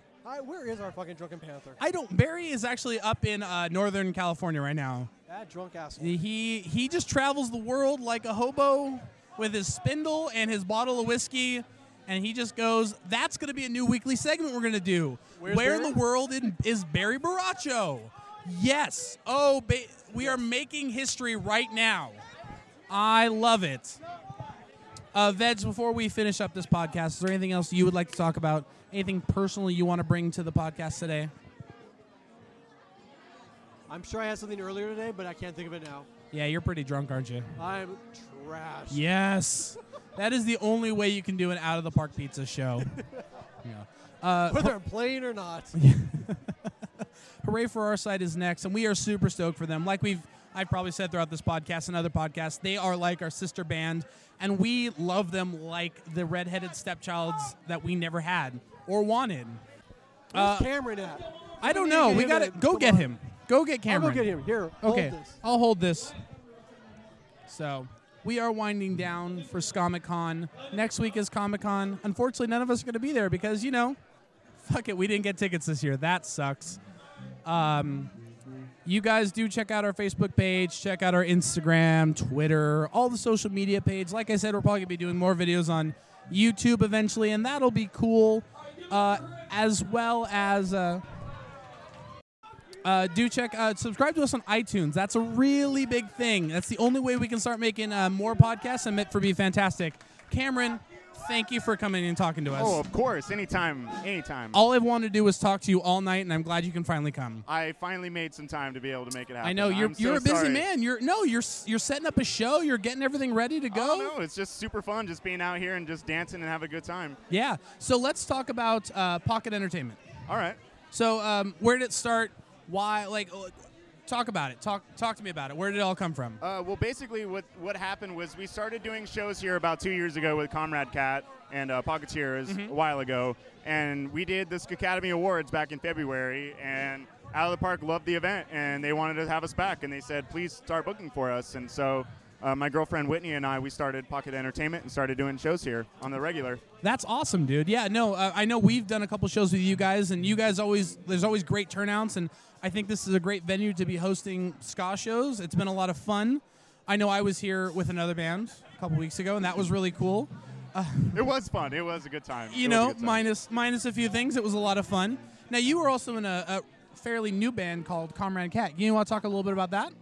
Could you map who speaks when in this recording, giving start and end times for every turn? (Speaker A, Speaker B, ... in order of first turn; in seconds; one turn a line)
Speaker A: 0.2-1.8
Speaker B: 1.8-5.1
Speaker A: 5.3-6.2
Speaker B: 6.0-22.2
Speaker A: 15.4-16.0
Speaker B: 22.9-24.0
Speaker B: 25.1-31.3
Speaker A: 33.9-36.1
Speaker B: 36.3-37.5
Speaker A: 37.6-39.0
Speaker B: 38.9-42.9
Speaker B: 43.6-44.7
Speaker A: 44.5-45.7
Speaker B: 45.8-46.7
Speaker B: 47.4-59.6
Speaker B: 60.3-60.7
Speaker A: 60.3-63.1
Speaker B: 61.6-66.2
Speaker A: 63.9-65.4
Speaker B: 67.5-74.0
Speaker B: 74.6-76.8
Speaker B: 77.4-78.1
Speaker B: 78.8-91.0
Speaker B: 92.8-102.8
Speaker C: 102.5-104.6
Speaker B: 104.5-107.4
Speaker C: 107.5-110.6
Speaker B: 109.4-114.1
Speaker C: 113.7-117.2
Speaker B: 117.3-120.0
Speaker C: 120.3-120.6
Speaker B: 120.9-123.5
Speaker B: 124.0-126.4
Speaker C: 126.4-146.6
Speaker B: 132.5-132.8
Speaker B: 146.8-161.2
Speaker C: 161.1-163.2
Speaker B: 162.5-169.9